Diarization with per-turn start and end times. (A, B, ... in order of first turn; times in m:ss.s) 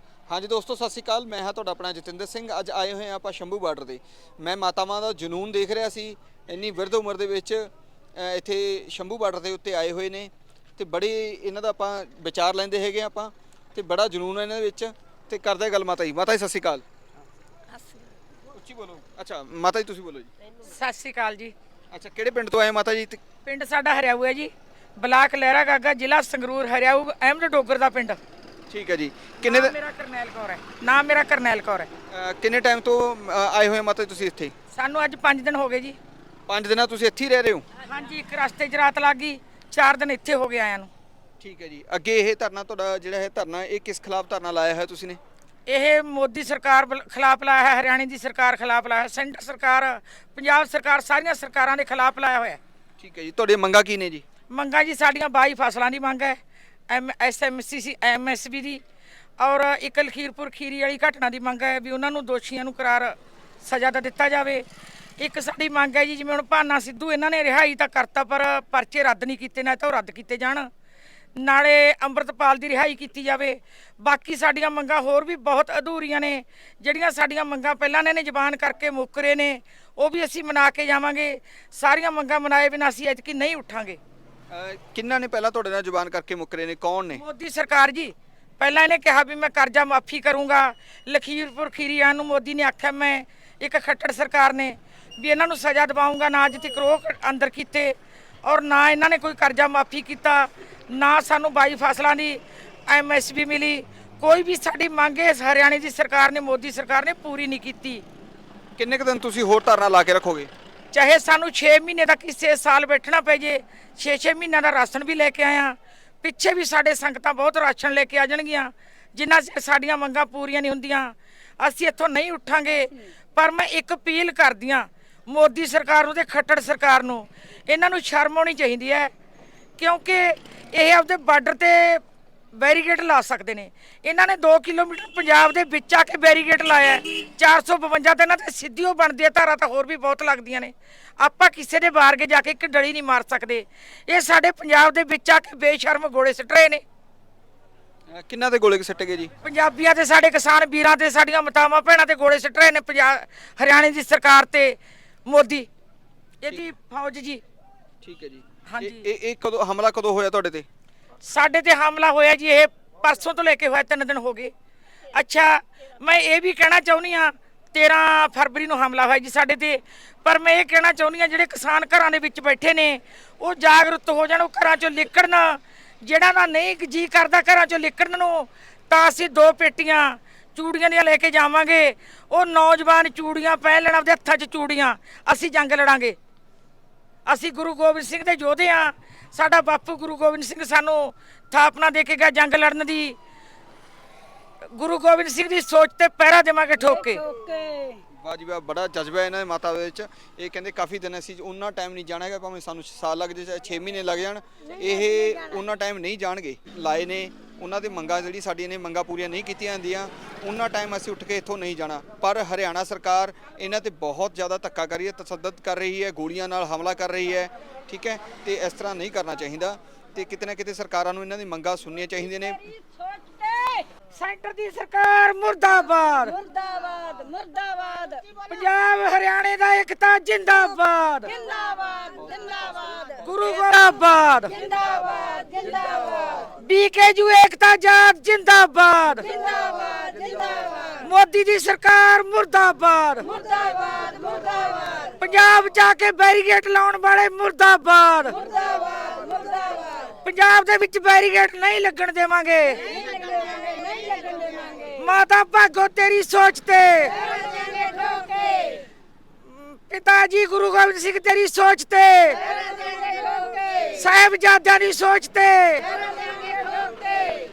0:00.3-0:16.8 A
0:18.5-0:20.3 A
0:20.6-0:21.5 B
0:21.9-0:23.2 A
0:23.4-0:28.2 B
0:28.7-0:29.8 A
0:29.4-0:31.9 B
0:32.1-0:34.5 A
0:34.7-0:36.0 B
0:36.5-0:37.7 A
0:37.8-0:40.9 B
0:41.4-0:45.2 A
0:45.7-0:52.6 B
0:53.0-0:54.2 A
0:54.5-0:58.8 B
0:59.4-1:04.7 B
1:05.2-1:10.7 B
1:11.4-1:24.0 B
1:24.5-1:27.2 A
1:27.2-1:48.0 B
1:48.8-1:50.5 A
1:50.9-2:09.1 B
2:09.8-2:26.8 B
2:28.1-2:29.3 A
2:29.4-2:35.7 B
2:36.4-2:37.4 B
2:38.0-2:40.7 A
2:38.7-2:39.1 B
2:41.2-2:44.5 B
2:45.1-3:06.2 B
3:07.3-3:13.2 B
3:14.7-3:17.3 B
3:17.1-3:18.0 C
3:18.1-3:42.6 A
3:42.7-3:43.9 C
3:44.1-3:46.4 B
3:46.4-3:48.5 C
3:48.5-3:51.4 B
3:51.3-3:53.2 C
3:53.2-3:54.6 B
3:54.6-3:56.4 C
3:56.4-3:59.4 B
3:59.4-4:01.0 C
4:01.0-4:03.4 B
4:03.4-4:05.1 C
4:05.1-4:08.4 B
4:08.4-4:10.1 C
4:10.2-4:13.0 B
4:12.9-4:15.0 C
4:14.9-4:17.3 B
4:17.2-4:18.8 C
4:19.4-4:22.6 B
4:22.6-4:23.8 C
4:23.8-4:26.0 B
4:26.0-4:27.4 C